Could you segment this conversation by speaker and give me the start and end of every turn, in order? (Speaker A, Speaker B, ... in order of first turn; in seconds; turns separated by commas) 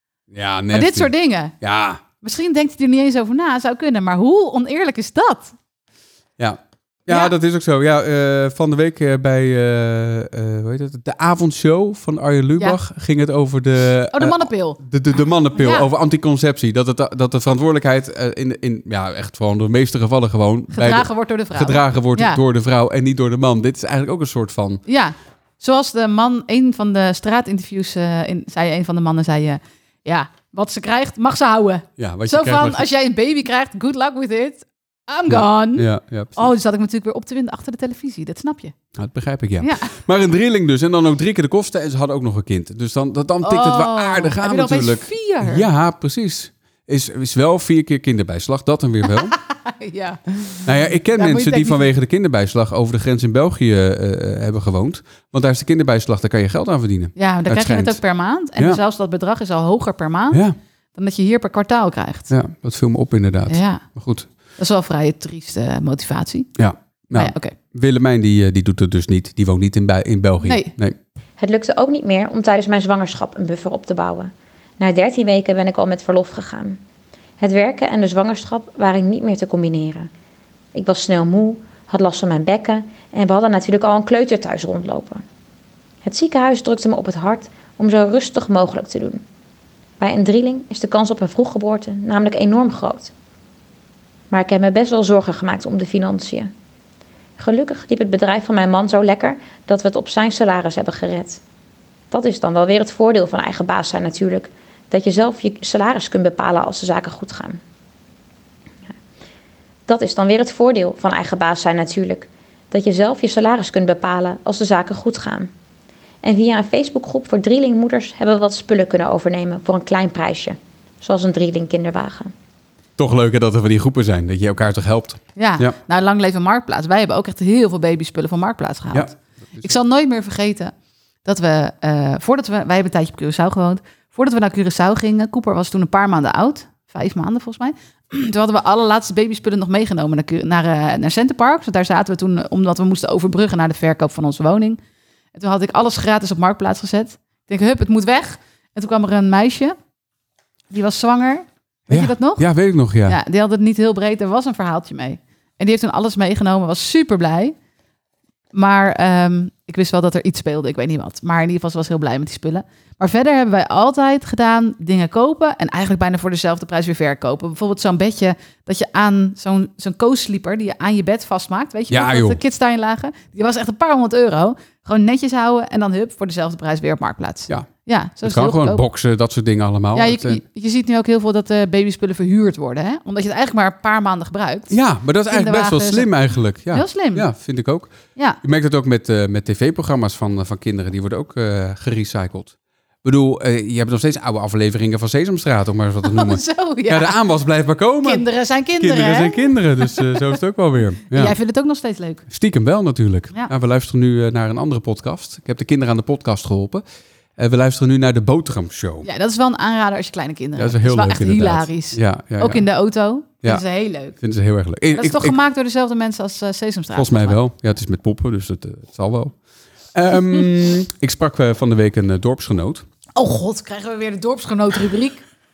Speaker A: 0.3-2.0, Speaker B: 0.7-1.5, Speaker B: 2.2-5.5, Speaker A: 6.4-24.8, Speaker B: 14.1-14.8, Speaker B: 15.5-15.9, Speaker B: 20.7-22.4, Speaker B: 24.9-38.8, Speaker A: 32.0-32.9, Speaker A: 35.3-36.5, Speaker A: 39.0-49.3, Speaker B: 39.6-40.0, Speaker B: 43.4-45.7, Speaker B: 49.3-51.9, Speaker A: 50.6-58.0, Speaker B: 57.2-60.4, Speaker B: 61.0-62.3, Speaker A: 62.3-64.3, Speaker B: 63.5-63.8, Speaker B: 64.6-66.5, Speaker A: 66.6-71.0, Speaker B: 67.1-67.5, Speaker B: 70.4-70.7, Speaker C: 71.4-76.8, Speaker C: 77.4-80.1, Speaker C: 80.7-85.2, Speaker C: 86.0-89.2, Speaker C: 90.0-93.1, Speaker C: 94.3-96.5, Speaker C: 97.4-101.4, Speaker C: 102.1-107.6, Speaker C: 109.9-115.5, Speaker C: 116.2-122.3, Speaker A: 123.0-125.8, Speaker B: 125.4-130.7, Speaker A: 128.9-129.8, Speaker B: 131.2-144.8, Speaker B: 145.3-149.8, Speaker B: 150.7-152.4, Speaker A: 151.9-153.2, Speaker B: 153.1-157.6, Speaker B: 158.5-178.8, Speaker A: 171.9-172.4, Speaker A: 178.2-180.4, Speaker B: 179.9-184.8, Speaker A: 184.7-198.3, Speaker B: 185.3-186.1, Speaker B: 186.7-187.3, Speaker B: 196.0-197.2, Speaker B: 198.0-200.3, Speaker A: 198.8-201.3, Speaker B: 201.1-202.2, Speaker A: 202.3-206.8, Speaker A: 207.4-209.1, Speaker B: 209.0-214.2, Speaker A: 210.6-212.6, Speaker A: 214.2-215.4, Speaker B: 214.9-217.4, Speaker A: 216.9-219.4, Speaker A: 219.9-222.8, Speaker B: 223.2-225.2